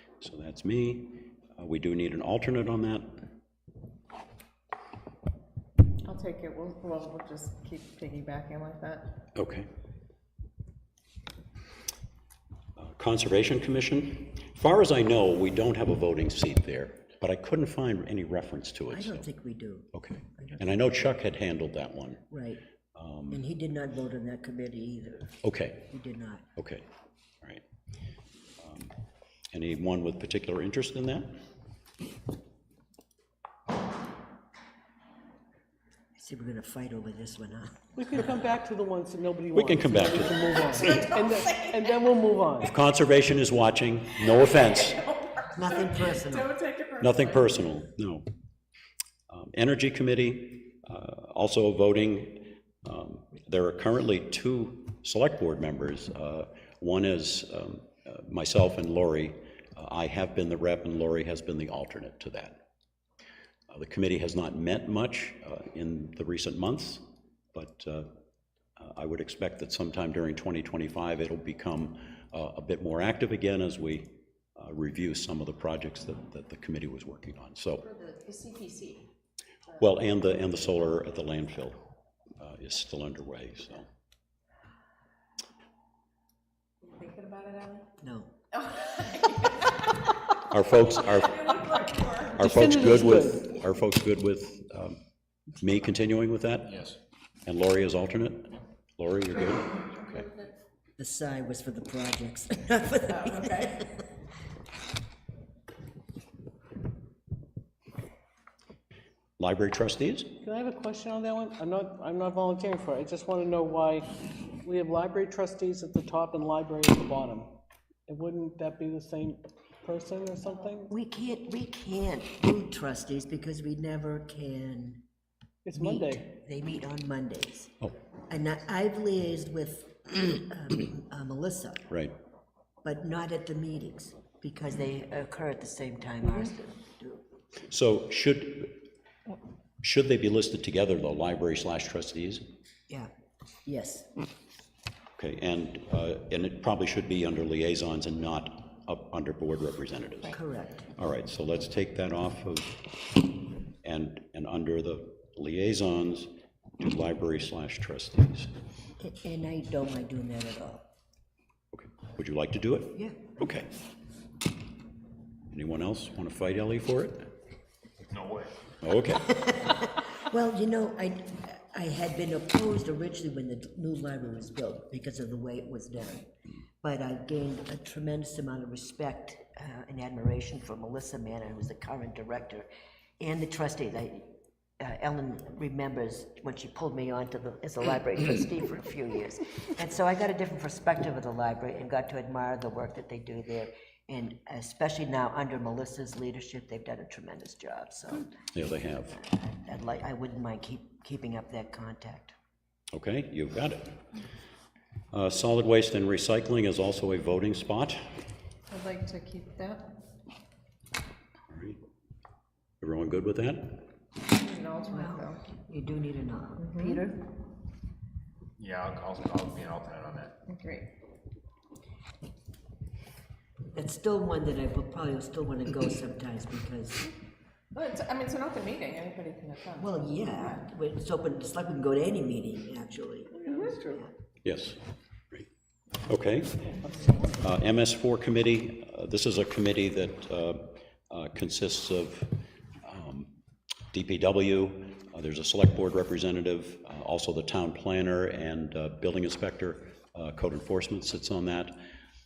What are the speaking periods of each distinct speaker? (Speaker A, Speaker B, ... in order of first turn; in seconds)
Speaker A: 0.2-3.2, 9.3-9.7, 12.8-19.2, 19.9-22.3, 22.9-23.4, 25.4-25.9, 26.6-26.9, 28.6-28.9, 29.5-31.4, 39.5-41.0, 42.6-45.2, 47.0-48.2, 49.3-62.6, 63.7-68.1, 68.8-77.9, 79.7-81.8, 82.4-83.9, 90.5-95.0, 95.6-100.3, 109.4-110.3, 137.7-138.8, 139.8-142.4, 145.2-150.4, 150.9-152.8, 153.8-158.5, 161.7-163.7, 165.5-167.3, 168.8-169.3, 198.5-199.2, 202.9-204.0, 205.1-208.2, 211.5-211.8, 212.8-213.9, 234.4-235.5, 236.0-243.3, 243.9-251.9
Speaker B: 6.0-9.2, 40.8-41.7, 45.0-47.3, 77.9-79.1, 86.8-87.9, 88.7-89.9, 90.9-92.3, 208.7-209.9, 214.3-215.4, 216.6-217.0, 220.5-220.9, 227.7-229.9, 233.4-234.0
Speaker C: 18.9-20.6, 22.3-22.6, 23.3-26.4, 36.2-37.8, 45.5-46.6, 88.0-88.3, 101.0-104.1, 120.9-125.0, 125.8-127.7, 128.3-131.9, 132.8-137.2, 143.7-144.1, 150.3-150.9, 159.0-160.8, 162.9-163.2, 169.2-176.3, 176.8-182.7, 183.2-198.4, 199.1-202.3, 214.9-217.2, 223.7-227.1, 229.8-234.1
Speaker D: 38.0-42.7, 92.3-93.5, 110.4-117.6, 118.1-120.9, 125.6-126.2
Speaker E: 168.1-168.5, 218.6-220.3